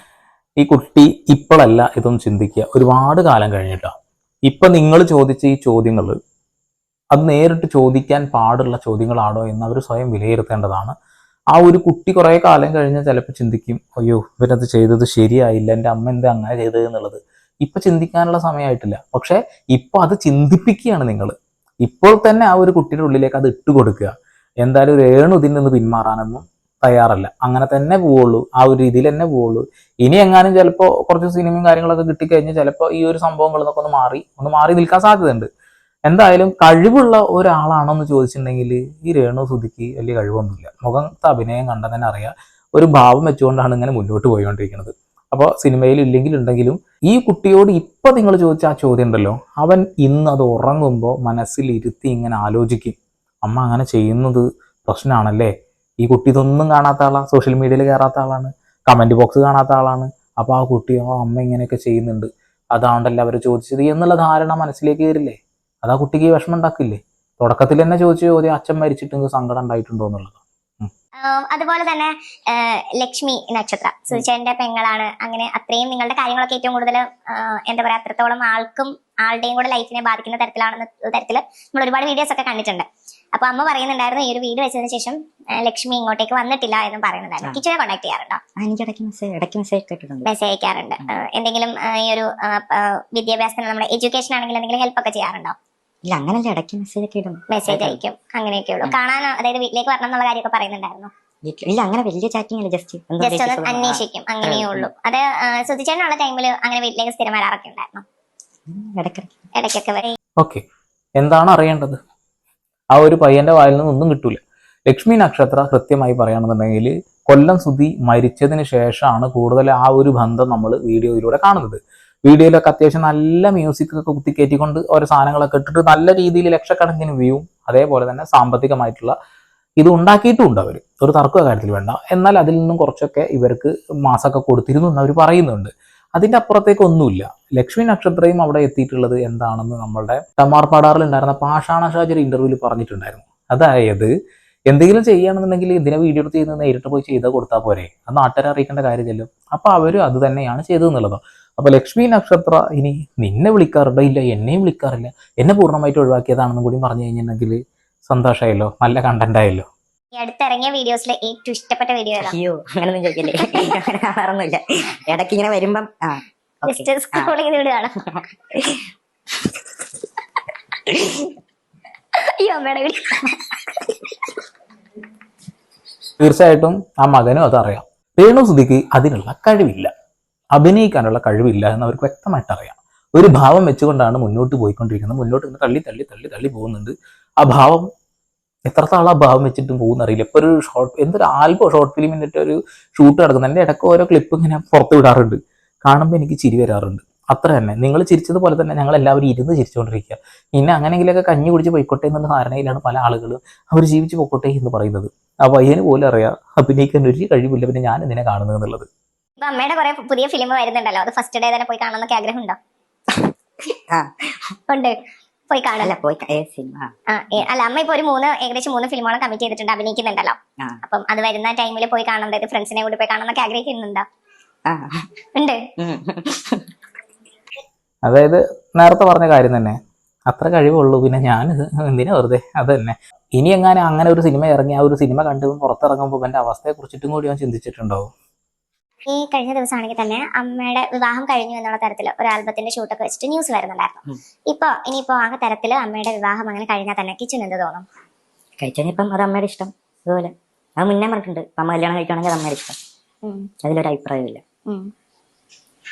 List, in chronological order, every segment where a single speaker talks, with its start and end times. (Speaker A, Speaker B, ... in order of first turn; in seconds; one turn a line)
Speaker A: 0.6-3.9
Speaker A: 4.5-6.2
Speaker A: 7.1-10.9
Speaker A: 11.5-35.5
Speaker A: 36.1-70.9
Speaker B: 71.2-88.4
Speaker C: 88.6-90.3
Speaker B: 90.2-95.5
Speaker C: 96.1-98.0
Speaker B: 97.5-101.1
Speaker C: 101.5-104.9
Speaker B: 103.2-108.0
Speaker C: 108.7-109.4
Speaker B: 109.5-110.1
Speaker A: 111.2-112.0
Speaker A: 112.9-129.1
Speaker A: 129.8-144.1
Speaker A: 144.7-159.7
Speaker B: 160.2-162.3
Speaker C: 162.2-167.3
Speaker B: 163.3-163.7
Speaker B: 166.7-168.0
Speaker C: 168.1-168.8
Speaker B: 170.9-171.3
Speaker B: 172.2-174.0
Speaker A: 176.2-179.9
Speaker A: 180.6-187.9
Speaker A: 188.7-208.9
Speaker B: 209.4-212.6
Speaker C: 213.9-214.6
Speaker B: 214.7-214.9
Speaker B: 215.5-215.9
Speaker C: 215.8-217.4
Speaker B: 217.1-224.0
Speaker C: 224.7-225.1
Speaker C: 225.8-226.7
Speaker A: 228.1-229.8
Speaker A: 230.3-238.1
Speaker B: 239.1-244.0
Speaker B: 244.5-247.8
Speaker C: 248.6-252.8
Speaker B: 253.2-253.5
Speaker C: 253.6-254.4